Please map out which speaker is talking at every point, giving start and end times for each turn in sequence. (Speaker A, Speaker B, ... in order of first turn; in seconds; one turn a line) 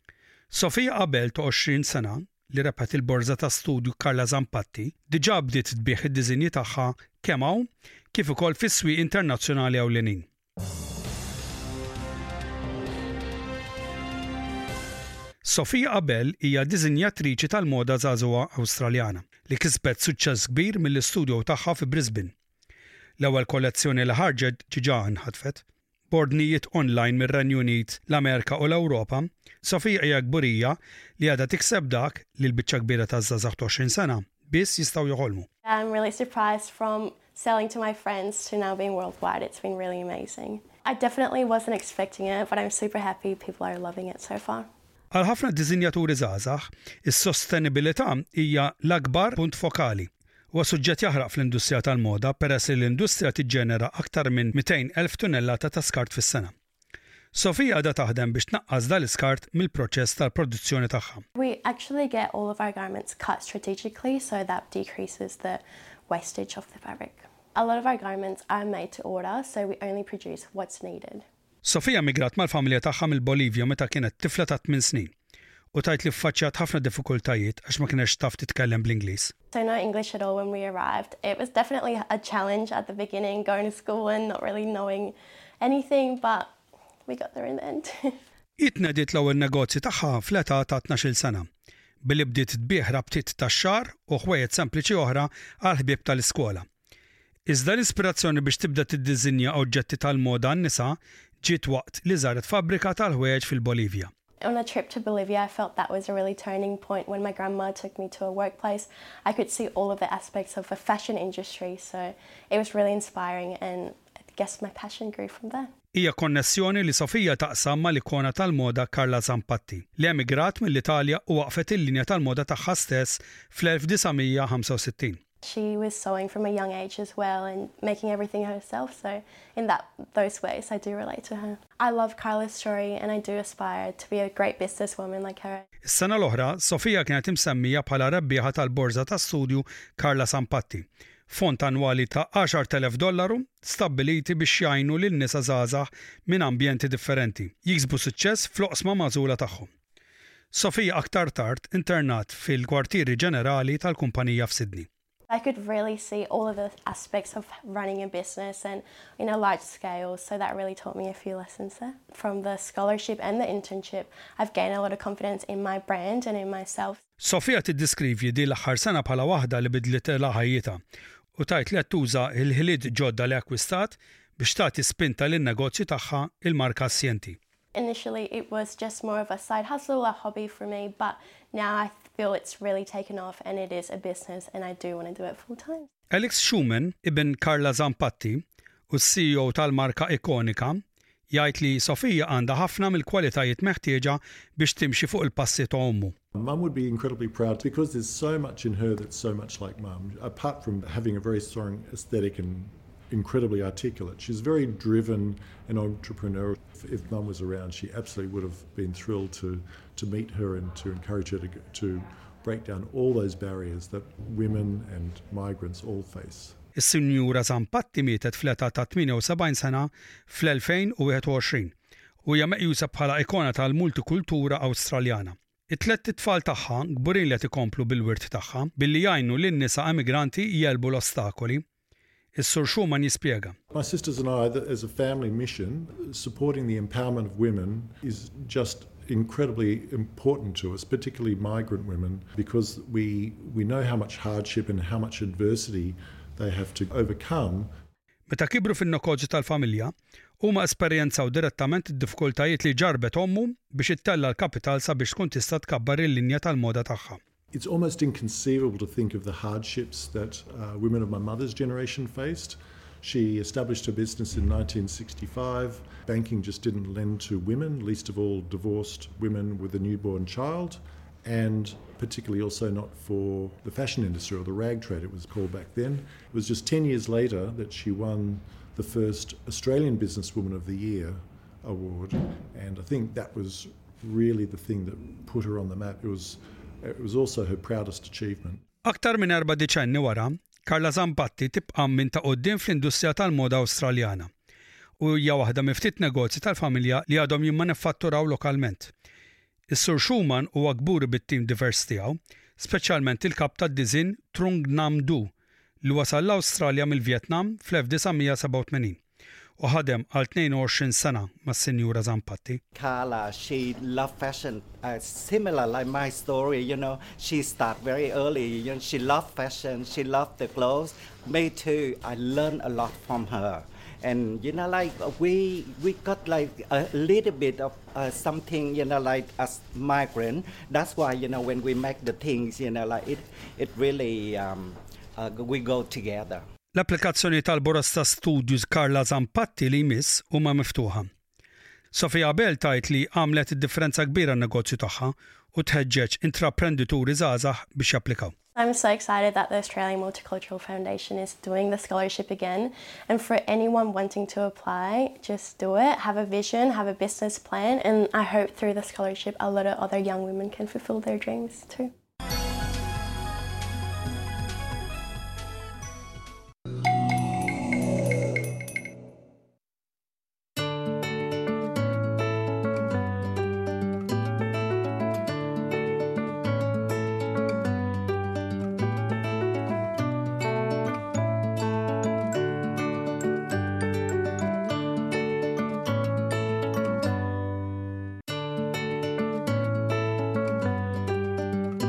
Speaker A: 0.5-10.3
Speaker A: 15.4-22.3
Speaker A: 23.2-35.5
Speaker B: 35.7-44.7
Speaker A: 45.1-56.5
Speaker A: 57.3-61.2
Speaker B: 61.4-71.2
Speaker A: 71.6-75.1
Speaker A: 75.7-79.3
Speaker B: 79.5-86.5
Speaker B: 87.1-88.2
Speaker A: 88.6-91.5
Speaker A: 92.0-96.7
Speaker A: 97.5-104.1
Speaker B: 104.4-115.7
Speaker A: 115.9-125.2
Speaker B: 125.4-135.7
Speaker A: 135.8-149.7
Speaker A: 150.5-154.9
Speaker B: 155.3-167.0
Speaker A: 167.2-170.8
Speaker A: 171.4-177.4
Speaker B: 177.8-185.9
Speaker A: 186.1-196.2
Speaker C: 196.3-216.6
Speaker A: 216.8-221.7
Speaker A: 222.2-231.6
Speaker A: 232.3-233.6
Speaker C: 233.7-247.7
Speaker A: 248.3-257.2
Speaker C: 257.5-288.6
Speaker A: 288.9-294.3
Speaker A: 295.0-298.9
Speaker A: 299.7-305.3
Speaker A: 305.8-309.0
Speaker A: 309.6-312.6
Speaker D: 312.8-336.5
Speaker A: 336.8-341.1
Speaker A: 341.9-348.3
Speaker B: 348.6-361.9